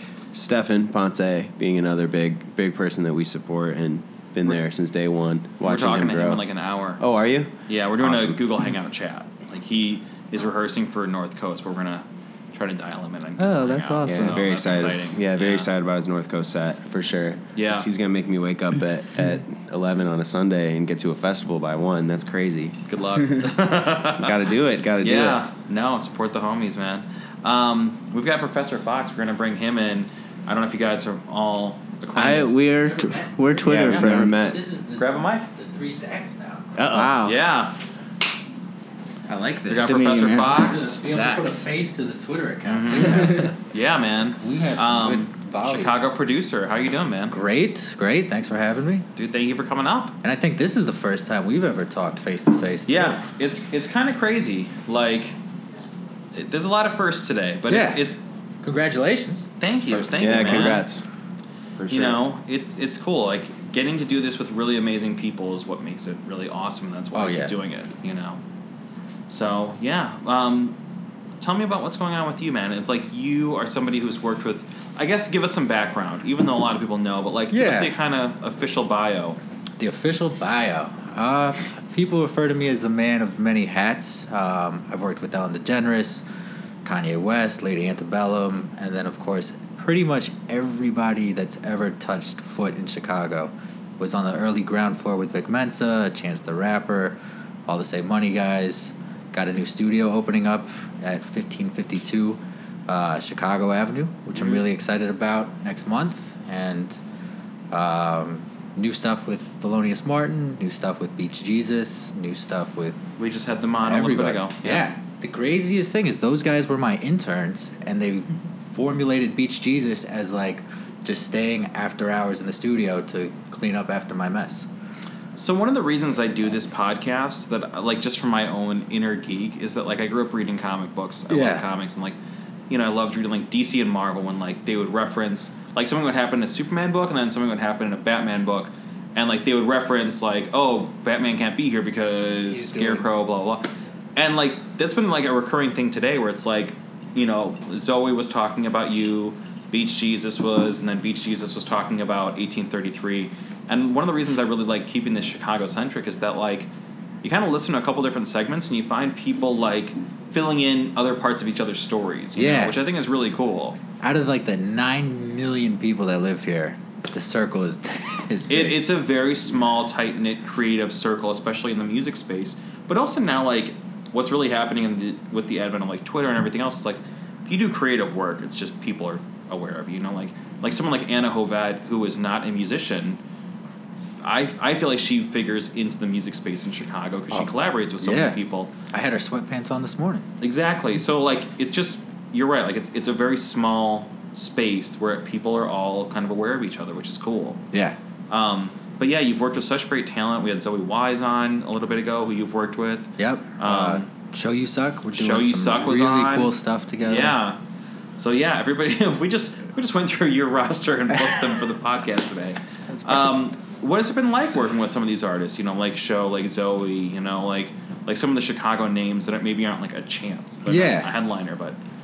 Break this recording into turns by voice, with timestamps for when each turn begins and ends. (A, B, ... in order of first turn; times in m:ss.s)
0:00.3-0:06.4 A
0:05.6-0:07.0 B
0:07.0-0:08.4 A
0:07.7-0:15.7 B
0:13.4-0:14.5 C
0:14.1-0:22.8 A
0:17.6-0:17.9 B
0:22.9-0:24.4 B
0:24.2-0:25.4 A
0:25.0-0:32.6 B
0:32.2-0:34.5 C
0:32.8-0:36.8 D
0:33.6-0:34.6 A
0:33.9-0:34.1 B
0:35.0-0:35.5 B
0:36.8-0:37.2 A
0:36.9-0:37.4 C
0:37.2-0:37.7 B
0:39.3-0:40.1 A
0:39.7-0:41.0 B
0:39.8-0:41.0 C
0:40.6-0:43.5 D
0:41.0-0:41.7 A
0:42.6-0:47.4 B
0:44.4-0:46.0 D
0:47.3-0:49.1 D
0:49.2-0:50.2 B
0:50.2-0:53.2 D
0:52.9-0:55.3 B
0:56.3-0:58.2 B
0:57.7-0:58.1 D
0:58.6-1:00.8 D
0:59.6-1:00.9 B
0:59.9-1:01.0 A
1:01.8-1:02.2 A
1:01.9-1:08.4 B
1:07.1-1:07.6 D
1:09.3-1:10.8 B
1:11.4-1:19.4 B
1:17.5-1:17.9 D
1:19.8-1:26.2 D
1:26.8-1:47.0 D
1:44.4-1:44.7 B
1:47.7-1:53.1 D
1:53.2-1:54.8 B
1:53.8-2:04.7 D
2:05.4-2:12.2 B
2:11.3-2:11.7 D
2:12.7-2:36.7 B
2:22.5-2:23.1 D
2:37.2-2:43.8 B
2:42.4-2:42.8 D
2:44.0-2:48.8 D
2:48.5-3:03.2 B
3:04.2-3:08.7 B
3:07.3-3:08.4 D
3:08.9-3:10.2 D
3:10.4-3:17.6 B
3:17.7-3:18.0 D
3:18.3-3:24.1 B
3:23.2-3:27.4 D
3:25.1-3:27.6 B
3:28.2-3:41.8 B
3:40.7-3:41.1 D